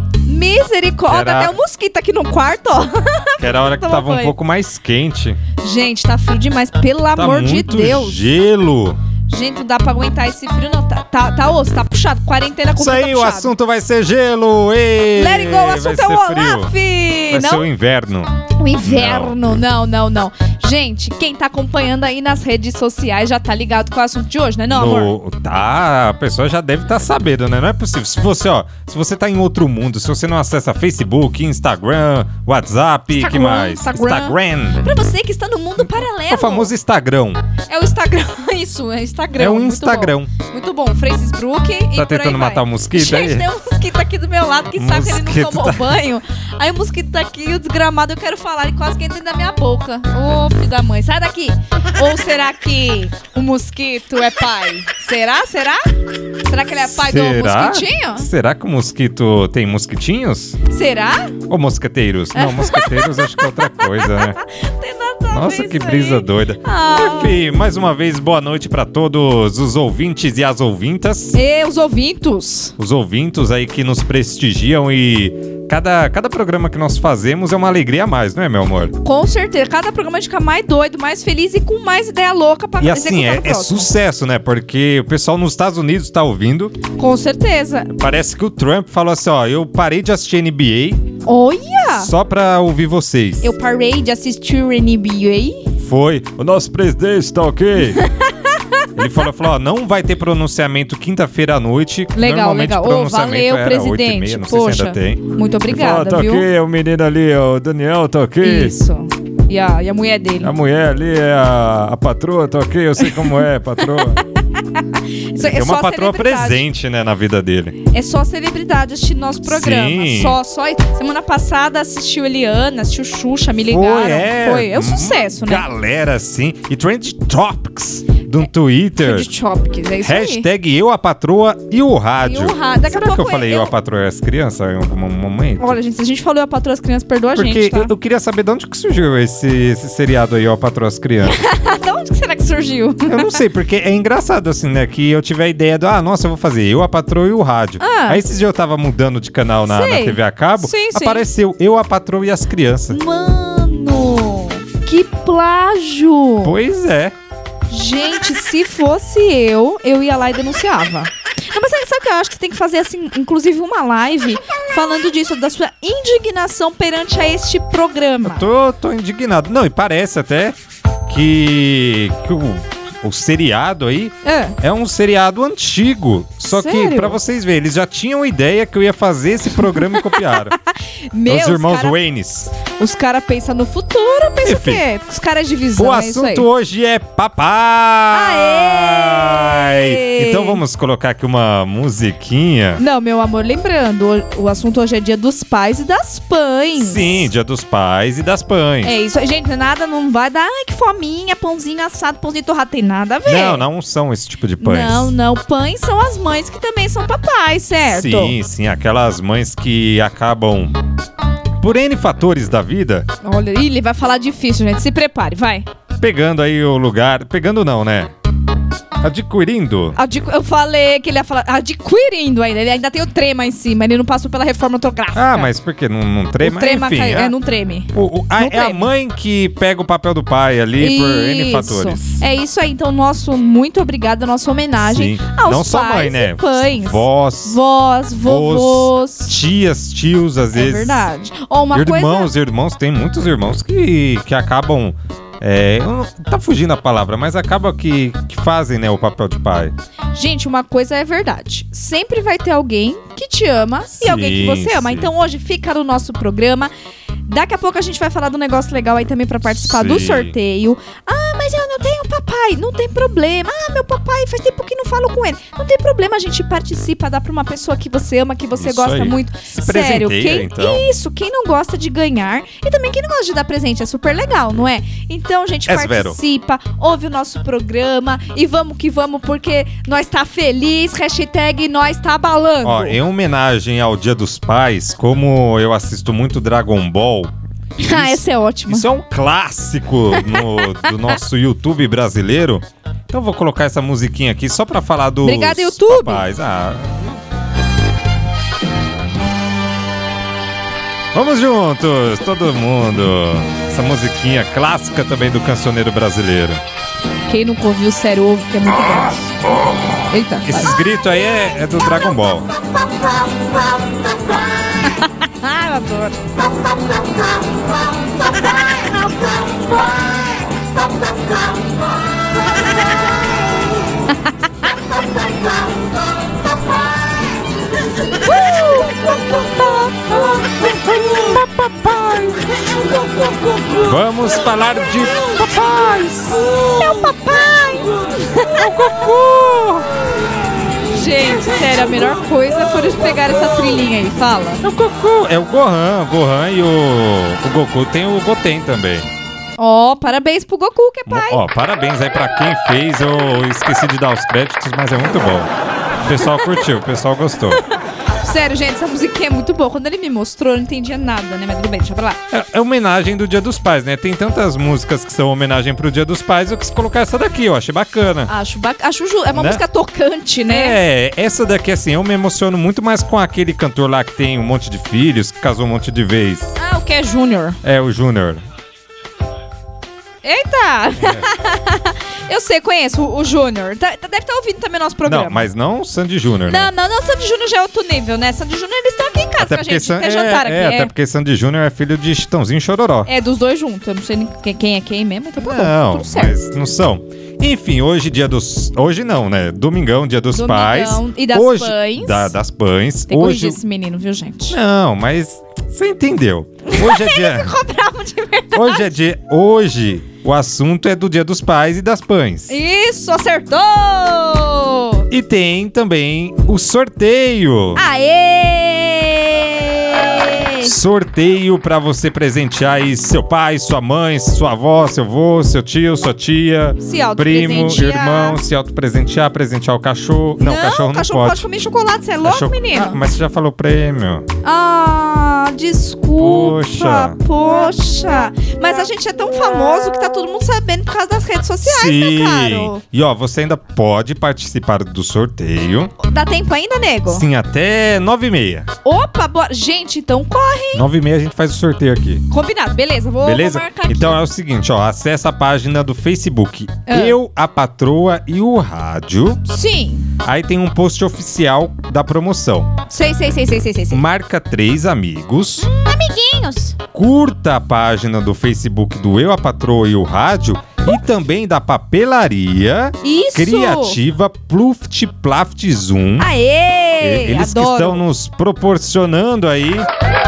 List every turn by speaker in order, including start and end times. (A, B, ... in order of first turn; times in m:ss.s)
0:00.3-0:04.4 A
0:01.1-0:01.6 B
0:03.4-0:05.4 B
0:05.6-0:08.2 A
0:07.2-0:09.0 B
0:09.3-0:13.5 A
0:12.8-0:16.7 B
0:15.2-0:17.7 A
0:17.3-0:19.3 B
0:18.6-0:25.1 A
0:24.7-0:34.9 B
0:33.1-0:36.7 A
0:35.8-0:37.4 B
0:37.7-0:55.8 A
0:39.4-0:40.3 B
0:42.0-0:43.5 B
0:44.8-0:45.9 B
0:56.5-0:58.3 A
0:56.9-1:00.6 B
1:00.7-1:01.4 A
1:01.5-1:04.4 B
1:02.4-1:07.4 A
1:05.3-1:11.4 B
1:11.3-1:12.7 A
1:12.8-1:18.9 B
1:19.0-1:23.9 A
1:22.8-1:26.8 B
1:27.0-1:27.9 A
1:27.9-1:31.1 B
1:31.3-1:32.1 A
1:32.0-1:33.5 B
1:33.4-1:35.6 A
1:35.8-1:38.0 B
1:37.9-1:39.2 A
1:39.0-1:48.8 B
1:42.2-1:46.5 A
1:48.4-1:50.5 A
1:50.4-1:54.2 B
1:54.8-1:56.6 A
1:55.4-1:57.8 B
1:57.9-2:05.6 A
1:59.5-2:00.4 B
2:03.7-2:09.3 B
2:09.0-2:10.5 A
2:10.0-2:15.8 B
2:12.2-2:13.7 A
2:15.6-2:17.9 A
2:17.4-2:21.4 B
2:21.2-2:23.4 A
2:23.1-2:33.0 B
2:27.8-2:28.2 A
2:29.7-2:31.2 A
2:32.9-2:36.5 A
2:36.4-2:37.2 B
2:37.7-2:48.5 A
2:48.2-3:00.6 B
2:54.2-2:54.6 A
2:56.5-2:57.2 A
2:59.7-3:02.0 A
3:01.3-3:02.5 B
3:02.6-3:06.5 A
3:04.4-3:04.8 B
3:05.8-3:12.8 B
3:08.1-3:10.6 A
3:12.8-3:17.3 A
3:16.8-3:18.9 B
3:18.8-3:23.6 A
3:23.3-3:25.1 B
3:24.6-3:28.4 A
3:27.8-3:30.8 B
3:31.6-3:33.1 B
3:33.2-3:35.7 A
3:36.0-3:38.1 B
3:39.0-3:40.0 B
3:40.0-3:45.5 A
3:45.2-3:47.3 B
3:46.4-3:48.9 A
3:47.9-3:52.2 B
3:50.8-3:59.4 A
3:54.8-3:57.6 B
3:58.2-4:01.1 B
4:00.5-4:02.3 A
4:01.7-4:09.7 B
4:10.2-4:16.7 A
4:14.0-4:15.1 B
4:17.3-4:43.0 A
4:19.5-4:20.3 B
4:28.6-4:30.9 B
4:35.7-4:36.2 B
4:42.6-4:47.3 B
4:47.8-4:48.9 A
4:47.9-4:57.2 B
4:50.2-4:50.6 A
4:55.2-4:56.2 A
5:01.1-5:06.6 B
5:07.3-5:09.4 A
5:10.1-5:10.7 A
5:10.5-5:12.5 B
5:14.8-5:16.2 A
5:28.2-5:30.3 A
5:30.6-5:32.4 B
5:33.8-5:36.5 B
5:36.7-5:37.9 A
5:38.4-5:38.6 A
5:38.6-5:39.9 B
5:40.9-5:44.6 A
5:44.6-5:49.1 B
5:49.6-5:51.4 A
5:51.1-5:55.5 B
5:56.0-5:57.6 B
5:58.2-6:02.2 A
6:02.3-6:08.3 B
6:08.3-6:10.8 A
6:09.3-6:09.6 B
6:10.5-6:16.5 B
6:16.6-6:17.6 A
6:17.6-6:18.4 B
6:20.2-6:25.5 A
6:25.0-6:26.7 B
6:26.5-6:30.9 A
6:29.4-6:33.1 B
6:33.1-6:36.4 A
6:35.4-6:43.6 B
6:40.3-6:42.3 A
6:43.1-6:44.6 A
6:44.5-6:47.5 B
6:46.7-6:48.9 A
6:48.5-6:52.6 B
6:52.5-6:55.1 A
6:55.1-6:57.8 B
6:57.8-7:00.8 A
7:00.6-7:11.4 B
7:06.8-7:08.4 A
7:10.4-7:13.0 A
7:12.2-7:14.3 B
7:14.4-7:22.8 A
7:16.2-7:17.2 B
7:21.6-7:25.9 B
7:26.0-7:27.3 A
7:27.1-7:28.7 B
7:28.8-7:30.8 A
7:30.7-7:32.2 B
7:32.3-7:34.2 A
7:33.2-7:39.4 B
7:36.9-7:37.2 A
7:39.5-7:40.1 A
7:40.2-7:42.7 B
7:42.9-7:44.0 A
7:43.9-7:45.7 B
7:45.6-7:46.8 A
7:46.9-7:56.3 B
7:53.0-7:54.0 A
7:56.2-7:58.0 A
7:57.0-7:59.9 B